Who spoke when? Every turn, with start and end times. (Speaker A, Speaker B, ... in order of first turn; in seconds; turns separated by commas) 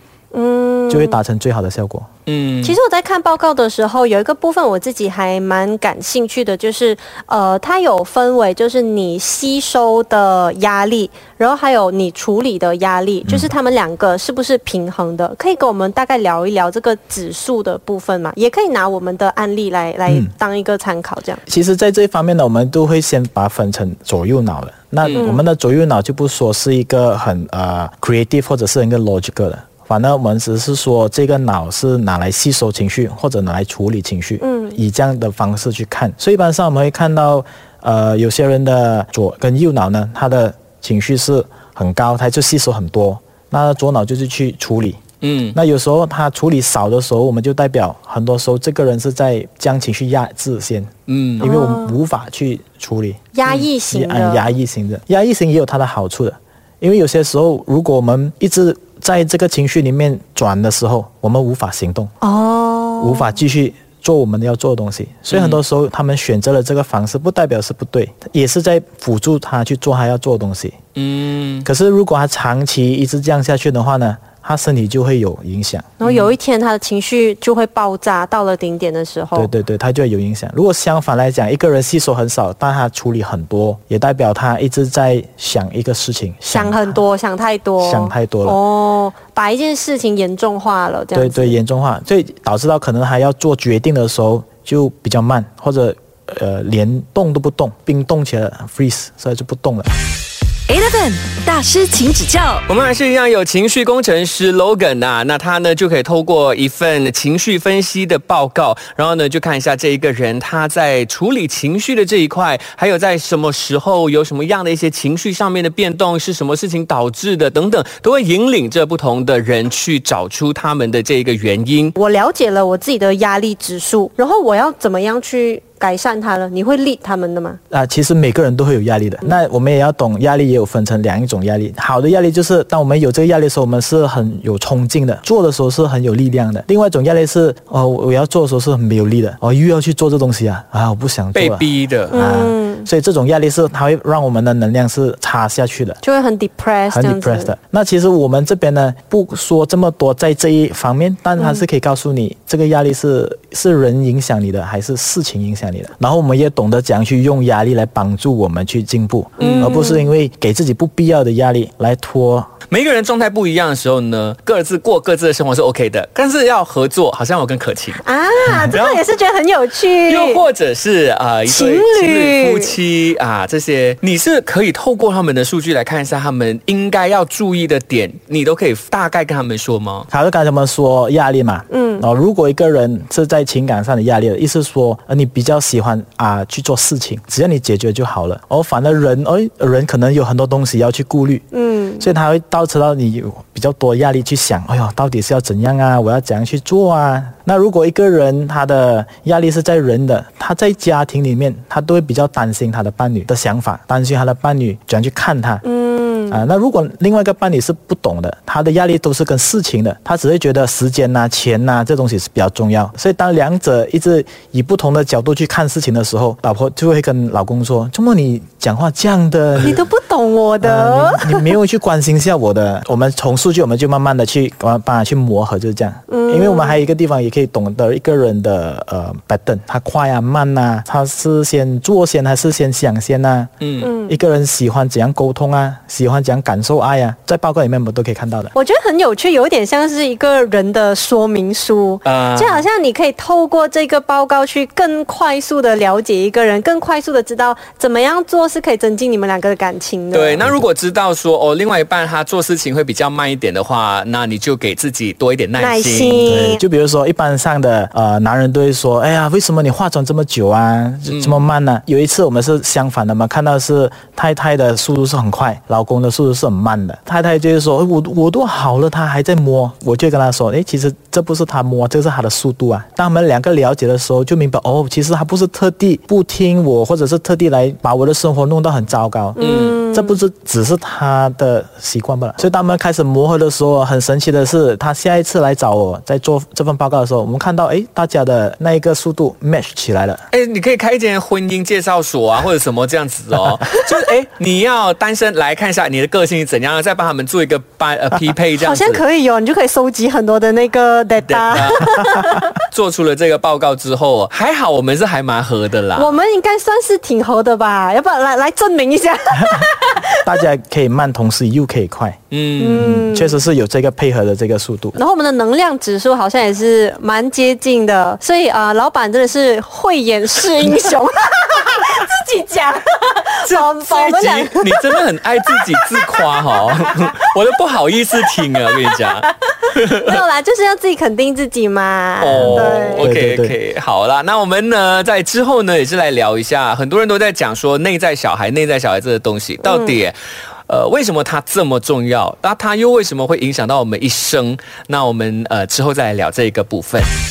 Speaker A: 0.3-1.2, Speaker B: 0.9-2.1, Speaker C: 2.3-2.8, Speaker A: 2.6-21.4, Speaker B: 13.3-13.5, Speaker B: 20.1-20.3, Speaker B: 21.5-45.0, Speaker A: 25.1-25.4, Speaker A: 34.4-34.8, Speaker C: 45.2-45.6, Speaker B: 45.5-53.3, Speaker C: 51.1-51.5, Speaker A: 51.4-52.0, Speaker A: 53.3-54.6, Speaker B: 53.9-62.1, Speaker A: 62.2-63.4, Speaker B: 63.0-70.8, Speaker C: 65.3-65.6, Speaker C: 71.0-71.7, Speaker B: 71.7-75.9, Speaker A: 76.0-79.5, Speaker C: 76.0-76.3, Speaker B: 79.3-87.0, Speaker A: 86.5-91.6, Speaker B: 87.8-88.6, Speaker B: 91.1-99.9, Speaker D: 100.7-102.6, Speaker C: 102.7-122.0, Speaker A: 122.0-127.6, Speaker B: 127.7-146.0, Speaker C: 141.3-142.2, Speaker A: 142.1-142.9, Speaker A: 146.0-147.5, Speaker B: 146.9-162.5, Speaker A: 151.4-151.6, Speaker A: 159.4-160.1, Speaker C: 159.4-159.7, Speaker C: 162.7-168.0, Speaker A: 168.0-170.4, Speaker C: 168.6-169.1, Speaker C: 170.1-180.1, Speaker A: 171.5-172.8, Speaker B: 180.1-191.4, Speaker A: 181.7-182.1, Speaker A: 191.5-192.1, Speaker B: 192.0-205.6, Speaker A: 205.6-206.4, Speaker B: 206.3-219.8, Speaker A: 219.6-221.6, Speaker B: 220.6-238.5, Speaker A: 226.1-226.8, Speaker C: 233.6-233.9, Speaker A: 233.8-234.2, Speaker A: 238.5-250.5, Speaker C: 242.1-242.7, Speaker C: 250.1-256.3, Speaker A: 255.6-256.6, Speaker B: 256.3-290.2, Speaker C: 261.1-261.4, Speaker A: 279.4-280.2, Speaker C: 279.4-279.8, Speaker C: 290.3-299.0, Speaker A: 298.6-302.5, Speaker C: 301.3-301.9, Speaker C: 302.7-306.1, Speaker A: 306.0-310.1, Speaker B: 310.2-312.2, Speaker C: 312.3-312.9, Speaker A: 312.6-313.4, Speaker B: 312.8-314.9, Speaker A: 314.9-324.9, Speaker C: 323.4-330.1, Speaker A: 325.5-326.2, Speaker A: 329.8-333.1, Speaker C: 332.2-340.2, Speaker B: 332.4-333.6, Speaker A: 339.6-340.0, Speaker C: 340.7-347.1